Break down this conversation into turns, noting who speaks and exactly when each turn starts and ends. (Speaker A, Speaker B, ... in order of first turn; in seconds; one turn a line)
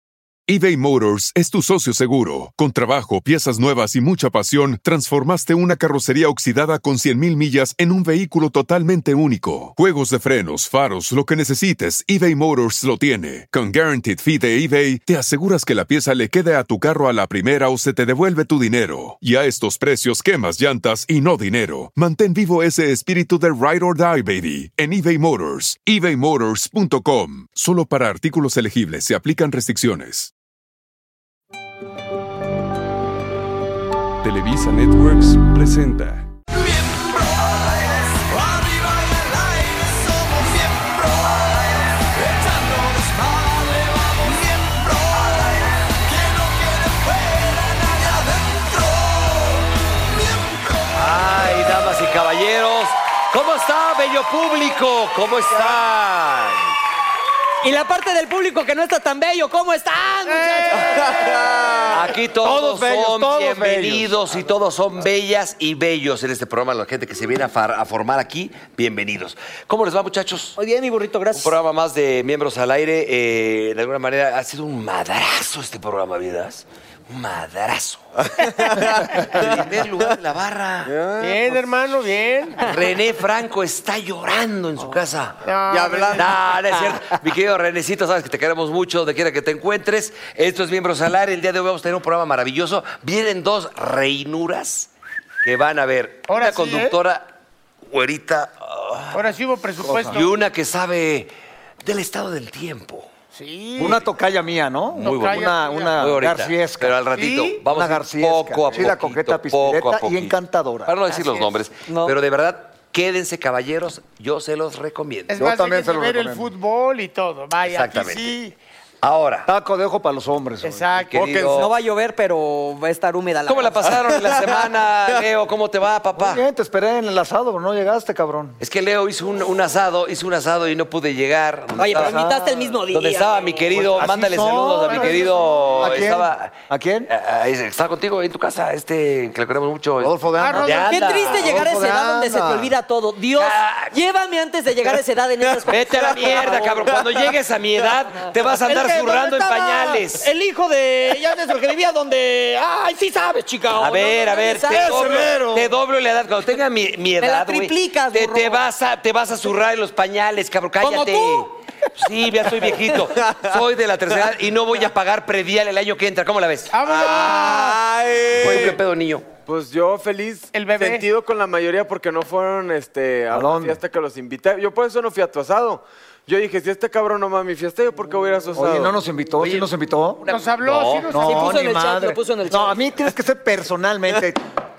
Speaker A: 0.5-30.3
Speaker B: 34.2-51.0
Speaker A: 34.3-36.2
Speaker C: 51.0-56.7
Speaker D: 57.6-61.3
Speaker E: 60.3-61.4
Speaker F: 60.8-61.9
Speaker C: 61.9-70.6
Speaker G: 62.4-64.1
Speaker D: 70.6-71.5
Speaker C: 71.3-80.9
Speaker F: 78.3-79.9
Speaker F: 80.9-81.6
Speaker E: 81.2-82.7
Speaker C: 82.6-85.4
Speaker E: 85.5-86.3
Speaker F: 85.7-86.3
Speaker C: 86.1-94.9
Speaker D: 86.7-87.2
Speaker C: 95.4-97.3
Speaker E: 96.3-97.0
Speaker C: 97.9-99.3
Speaker E: 99.1-100.3
Speaker G: 99.8-100.2
Speaker C: 99.8-101.3
Speaker C: 101.8-103.1
Speaker E: 103.3-104.0
Speaker G: 103.8-107.0
Speaker E: 105.0-106.0
Speaker C: 105.0-115.3
Speaker E: 107.2-107.6
Speaker G: 107.6-111.0
Speaker E: 111.1-111.5
Speaker D: 111.9-112.1
Speaker E: 115.3-118.5
Speaker G: 115.3-116.5
Speaker C: 117.6-118.3
Speaker C: 119.0-119.5
Speaker G: 119.5-121.1
Speaker E: 120.6-121.2
Speaker C: 121.1-121.7
Speaker F: 121.2-121.6
Speaker D: 121.5-123.9
Speaker C: 123.5-126.4
Speaker G: 126.2-128.6
Speaker C: 128.6-132.2
Speaker D: 131.8-133.5
Speaker G: 131.9-132.8
Speaker C: 132.9-136.6
Speaker G: 133.7-137.1
Speaker E: 134.9-135.6
Speaker C: 137.1-141.7
Speaker G: 140.0-142.7
Speaker E: 140.4-141.1
Speaker D: 140.9-146.7
Speaker C: 143.3-143.9
Speaker F: 145.5-147.2
Speaker C: 145.7-150.3
Speaker D: 148.7-155.1
Speaker C: 153.8-166.7
Speaker G: 154.7-155.7
Speaker D: 157.2-158.6
Speaker D: 160.8-161.5
Speaker D: 162.7-162.9
Speaker F: 163.2-163.6
Speaker E: 166.7-167.8
Speaker F: 166.8-168.8
Speaker C: 168.4-169.3
Speaker F: 169.5-178.9
Speaker E: 170.5-171.1
Speaker G: 173.3-173.8
Speaker G: 178.6-180.2
Speaker C: 179.4-181.2
Speaker E: 180.3-181.6
Speaker G: 181.1-184.4
Speaker D: 181.3-182.8